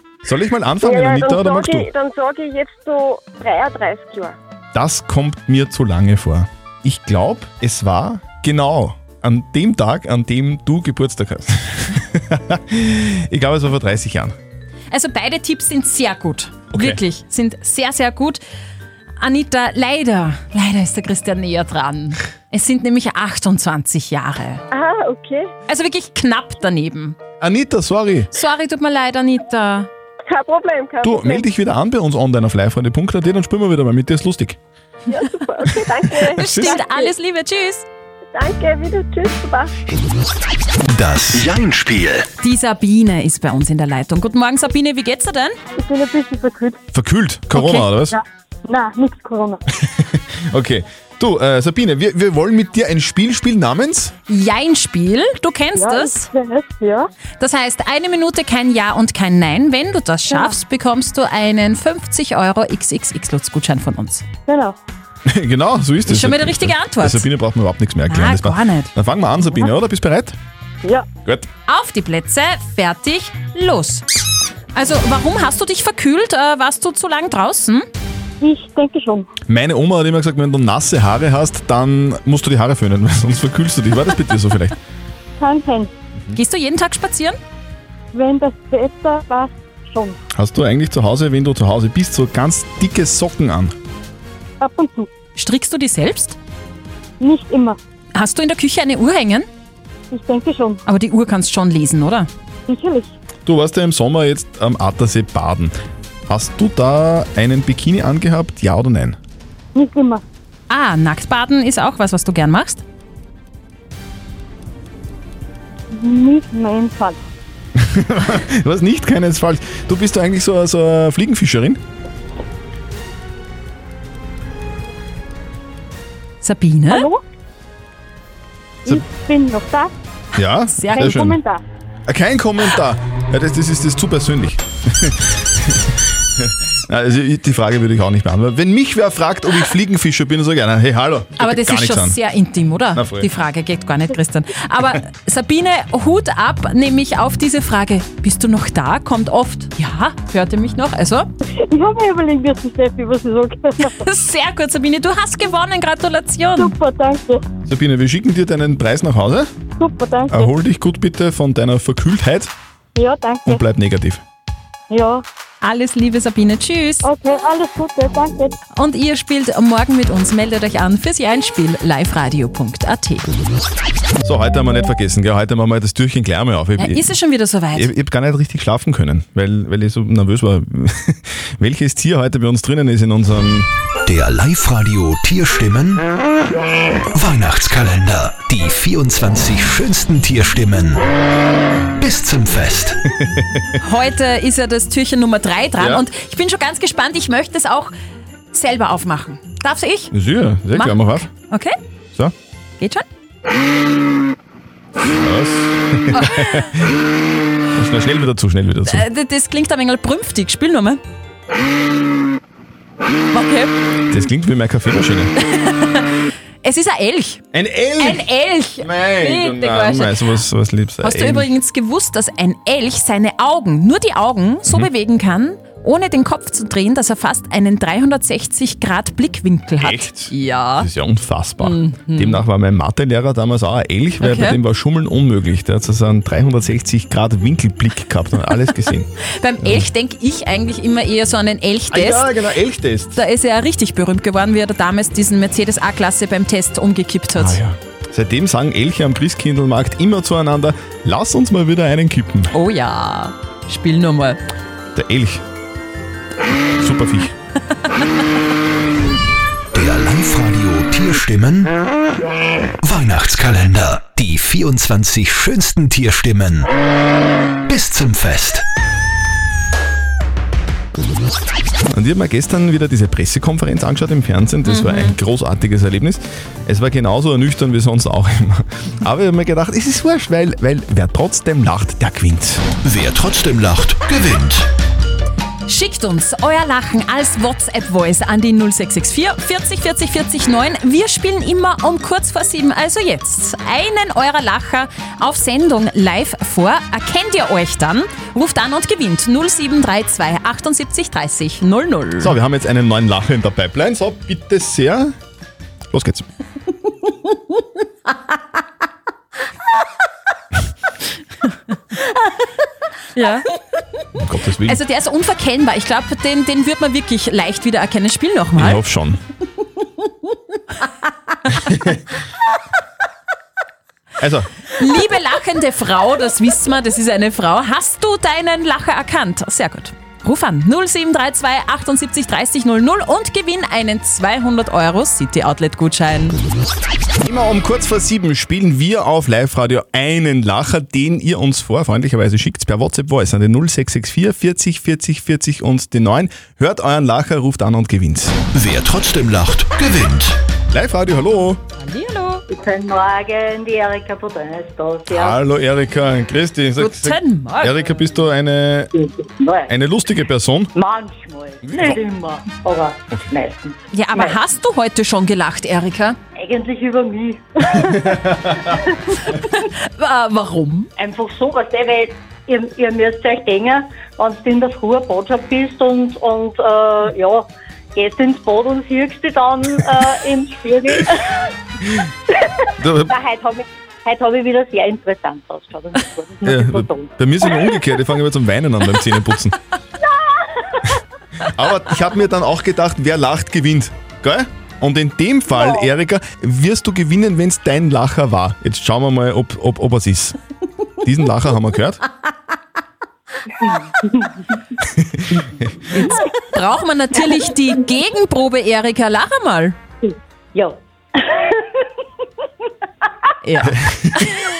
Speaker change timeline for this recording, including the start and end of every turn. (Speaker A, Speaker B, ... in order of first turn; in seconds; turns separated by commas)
Speaker A: 0.2-1.9, Speaker B: 0.8-4.3, Speaker A: 4.7-14.3, Speaker C: 14.9-18.4, Speaker A: 16.7-17.0, Speaker C: 19.2-24.6, Speaker B: 24.7-25.4, Speaker C: 25.7-27.2, Speaker A: 27.4-28.3, Speaker C: 28.3-29.9, Speaker B: 30.3-31.4, Speaker A: 31.0-34.6, Speaker B: 35.1-37.1, Speaker C: 36.3-37.8, Speaker A: 36.4-36.8, Speaker B: 38.3-39.7, Speaker D: 40.8-42.2, Speaker C: 42.4-45.5, Speaker E: 45.8-46.8, Speaker A: 46.9-48.2, Speaker C: 47.5-47.9, Speaker E: 48.1-49.6, Speaker A: 49.9-54.1, Speaker C: 54.3-56.3, Speaker E: 55.7-57.1, Speaker C: 57.4-64.2, Speaker E: 60.3-60.6, Speaker E: 64.5-64.8, Speaker A: 65.2-70.3, Speaker C: 66.0-67.2, Speaker C: 68.1-68.9, Speaker C: 71.7-74.0, Speaker C: 74.7-77.8, Speaker E: 78.4-79.3, Speaker A: 79.5-84.8, Speaker E: 85.4-85.9, Speaker C: 86.3-87.4, Speaker E: 88.1-90.2, Speaker A: 90.3-93.7, Speaker E: 94.6-95.1, Speaker C: 95.4-96.3, Speaker E: 97.2-97.8, Speaker C: 98.1-99.5, Speaker E: 100.1-100.8, Speaker C: 100.8-102.3, Speaker E: 102.7-103.1, Speaker A: 103.5-105.7, Speaker A: 106.3-109.2, Speaker E: 109.7-110.2, Speaker C: 110.7-112.8, Speaker E: 115.9-117.2, Speaker A: 117.8-121.8, Speaker C: 126.4-127.1, Speaker E: 126.9-127.2, Speaker E: 128.8-129.9, Speaker A: 130.3-131.4, Speaker C: 130.8-131.2, Speaker E: 130.9-131.6, Speaker A: 132.1-142.2, Speaker C: 141.4-151.3, Speaker A: 142.9-143.3, Speaker E: 151.7-154.1, Speaker C: 153.9-156.7, Speaker E: 156.6-157.4, Speaker A: 157.7-159.5, Speaker E: 159.8-160.5, Speaker A: 160.3-162.5, Speaker E: 162.9-163.6, Speaker A: 163.4-164.2, Speaker E: 164.9-165.2, Speaker C: 165.6-167.0, Speaker E: 167.0-168.5, Speaker C: 168.8-173.3, Speaker A: 174.2-177.1, Speaker C: 176.8-177.9, Speaker A: 177.7-183.7, Speaker D: 184.1-186.0, Speaker D: 187.1-191.0, Speaker D: 192.0-193.0, Speaker A: 193.2-193.4, Speaker C: 193.8-197.9, Speaker A: 195.8-196.1, Speaker C: 198.5-200.1, Speaker A: 200.1-201.3, Speaker C: 200.7-201.7, Speaker C: 202.8-203.0, Speaker A: 205.1-206.9, Speaker A: 207.7-209.1, Speaker C: 208.9-211.0, Speaker C: 213.3-213.7, Speaker A: 214.1-215.3, Speaker C: 215.4-217.4, Speaker A: 217.5-218.3, Speaker C: 218.0-220.2, Speaker A: 218.8-221.5, Speaker C: 221.0-230.9, Speaker A: 229.8-239.1, Speaker C: 231.6-232.4, Speaker C: 234.2-234.6, Speaker C: 239.4-242.3, Speaker A: 241.9-243.2, Speaker C: 243.2-247.6, Speaker A: 247.3-252.5, Speaker C: 252.5-254.4, Speaker A: 254.9-255.4, Speaker A: 256.8-257.3, Speaker D: 259.7-261.7, Speaker D: 262.8-266.7, Speaker D: 267.7-268.6, Speaker A: 271.9-282.7, Speaker C: 274.6-275.1, Speaker D: 282.8-284.7, Speaker C: 285.6-302.3, Speaker A: 302.2-305.1, Speaker A: 305.9-306.2, Speaker C: 313.1-313.4, Speaker A: 314.2-314.8, Speaker C: 314.6-318.8, Speaker A: 318.6-319.2, Speaker A: 324.2-324.5, Speaker C: 324.8-336.4, Speaker A: 337.2-348.4, Speaker D: 348.5-350.4, Speaker A: 350.7-351.6, Speaker C: 351.8-352.4, Speaker F: 352.5-355.4, Speaker A: 355.1-358.9, Speaker C: 356.8-357.7, Speaker F: 359.0-359.7, Speaker A: 359.7-360.7, Speaker F: 360.7-364.4, Speaker C: 363.9-366.1, Speaker F: 366.4-368.4, Speaker C: 369.6-370.9, Speaker F: 371.0-381.3, Speaker A: 382.8-383.1, Speaker F: 383.0-387.1, Speaker A: 386.4-389.6, Speaker A: 391.4-400.4, Speaker F: 395.5-395.9, Speaker A: 401.0-402.0, Speaker F: 403.6-404.2, Speaker A: 404.9-405.7, Speaker C: 405.9-409.8, Speaker F: 410.0-411.5, Speaker C: 413.4-414.3, Speaker A: 413.7-414.2